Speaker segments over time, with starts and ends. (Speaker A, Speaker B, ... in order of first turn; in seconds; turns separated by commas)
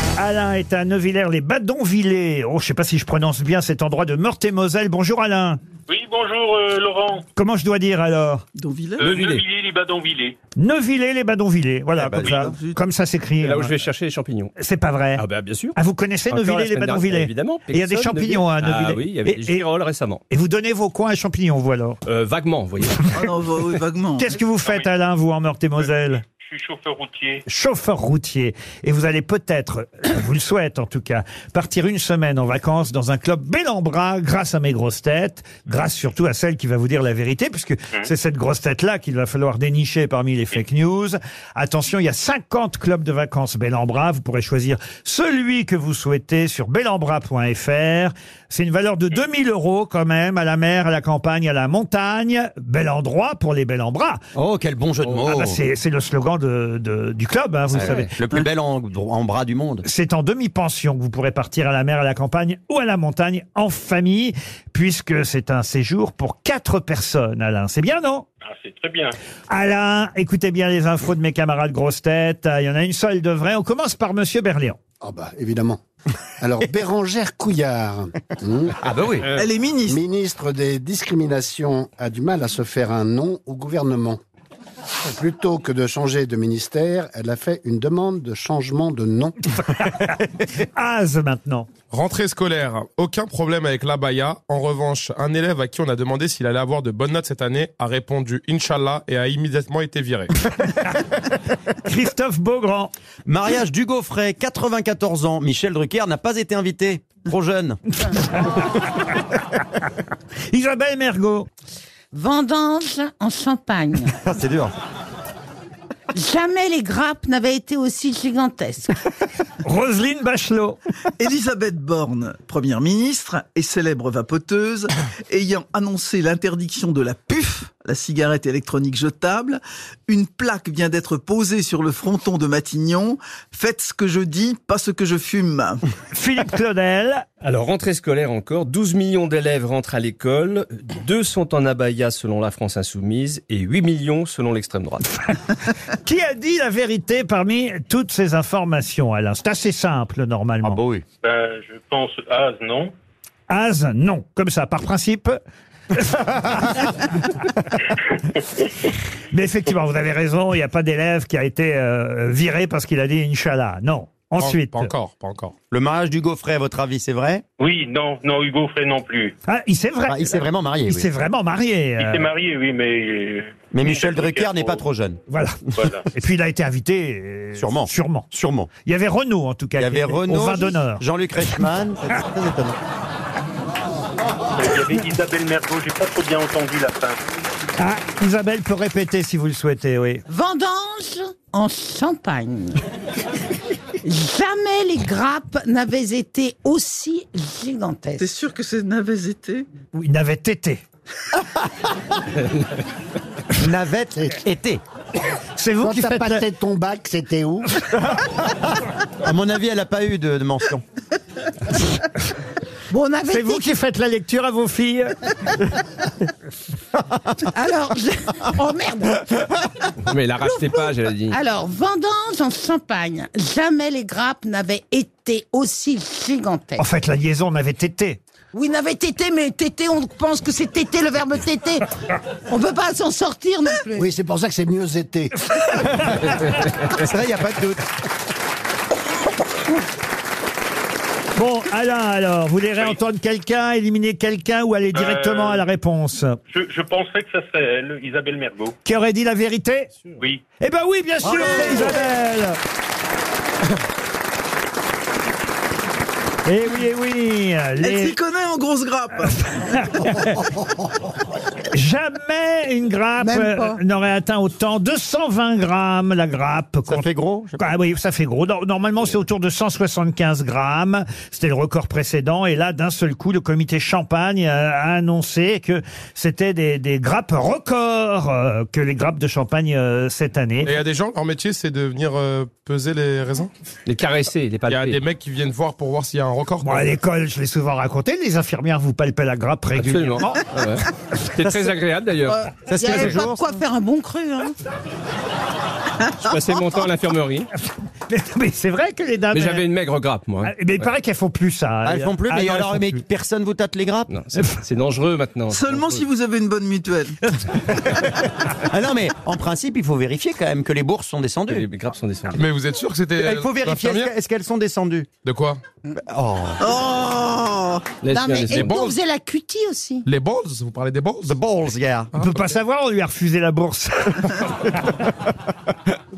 Speaker A: 0.2-5.6, Speaker B: 5.9-7.3, Speaker A: 7.4-8.4, Speaker C: 8.6-9.1, Speaker D: 9.0-9.4, Speaker B: 9.0-10.4, Speaker A: 10.6-13.7, Speaker E: 12.0-12.5, Speaker C: 12.1-12.8, Speaker D: 13.4-14.5, Speaker A: 14.6-15.2, Speaker D: 15.2-15.8, Speaker A: 15.8-19.6, Speaker D: 16.3-20.2, Speaker A: 20.3-22.0, Speaker D: 22.1-23.2, Speaker C: 23.1-24.3, Speaker A: 24.2-26.2, Speaker B: 24.6-24.9, Speaker B: 26.2-27.4, Speaker A: 27.5-54.2, Speaker E: 54.4-55.6, Speaker A: 55.0-58.1, Speaker E: 57.7-59.8, Speaker A: 59.8-68.3, Speaker B: 68.4-69.2, Speaker A: 69.5-74.8, Speaker F: 75.0-75.8, Speaker F: 76.4-78.8, Speaker E: 78.8-79.3, Speaker C: 79.3-80.0, Speaker F: 79.9-84.2, Speaker F: 85.1-89.6, Speaker A: 89.7-91.7, Speaker G: 91.9-100.3, Speaker A: 100.7-101.0, Speaker A: 101.8-102.9, Speaker E: 103.3-107.8, Speaker A: 108.1-109.1, Speaker A: 110.5-111.5, Speaker H: 112.1-114.1, Speaker E: 114.2-114.7, Speaker H: 116.1-119.0, Speaker A: 119.6-120.8, Speaker C: 121.2-135.8, Speaker A: 136.1-137.3, Speaker D: 137.4-145.1, Speaker A: 145.9-150.8, Speaker E: 150.6-151.0, Speaker B: 151.2-152.9, Speaker A: 153.5-155.4, Speaker A: 156.1-156.9, Speaker A: 159.3-164.9, Speaker G: 164.4-165.5, Speaker E: 165.7-167.4, Speaker B: 167.6-169.4, Speaker A: 169.5-172.3, Speaker E: 170.1-171.1, Speaker B: 172.0-174.8, Speaker E: 173.7-175.2, Speaker A: 175.3-178.3, Speaker B: 175.7-176.1, Speaker E: 177.6-178.7, Speaker A: 178.8-181.7, Speaker E: 179.8-182.8, Speaker B: 184.6-187.2, Speaker A: 187.8-190.2, Speaker H: 190.3-192.8, Speaker H: 194.0-198.3, Speaker C: 198.2-199.7, Speaker A: 199.9-200.8, Speaker E: 203.6-204.8, Speaker A: 205.5-206.4, Speaker F: 205.8-207.8, Speaker E: 208.0-210.8, Speaker H: 212.9-213.7, Speaker A: 213.3-215.6, Speaker H: 217.4-219.6, Speaker D: 220.0-221.4, Speaker H: 220.4-226.9, Speaker A: 226.8-228.2, Speaker H: 228.5-234.1, Speaker F: 233.9-235.5, Speaker E: 236.9-237.9, Speaker A: 241.3-246.4, Speaker B: 244.9-245.7, Speaker B: 246.5-248.8, Speaker A: 248.8-249.9, Speaker B: 250.2-250.4, Speaker A: 250.6-252.6, Speaker C: 251.2-252.1, Speaker A: 256.4-258.2, Speaker C: 257.8-259.6, Speaker A: 259.6-260.5, Speaker A: 261.7-280.7, Speaker E: 266.9-267.7, Speaker G: 280.6-283.5, Speaker D: 283.9-285.0, Speaker G: 284.7-286.8, Speaker A: 286.6-290.5, Speaker D: 289.8-292.4, Speaker H: 292.3-294.6, Speaker E: 292.7-293.5, Speaker D: 296.2-297.5, Speaker A: 298.1-299.6, Speaker D: 299.3-300.9, Speaker A: 300.4-303.0, Speaker E: 301.8-304.1, Speaker D: 304.1-306.0, Speaker C: 305.5-307.2, Speaker E: 308.5-311.6, Speaker D: 311.5-312.4, Speaker G: 312.4-314.1, Speaker E: 313.2-315.1, Speaker G: 315.2-315.6, Speaker E: 316.0-316.6, Speaker C: 316.6-317.9, Speaker D: 318.0-318.8, Speaker H: 318.1-320.1, Speaker G: 318.5-319.0, Speaker G: 320.1-321.4, Speaker E: 321.2-322.1, Speaker G: 322.1-322.5, Speaker A: 322.2-325.2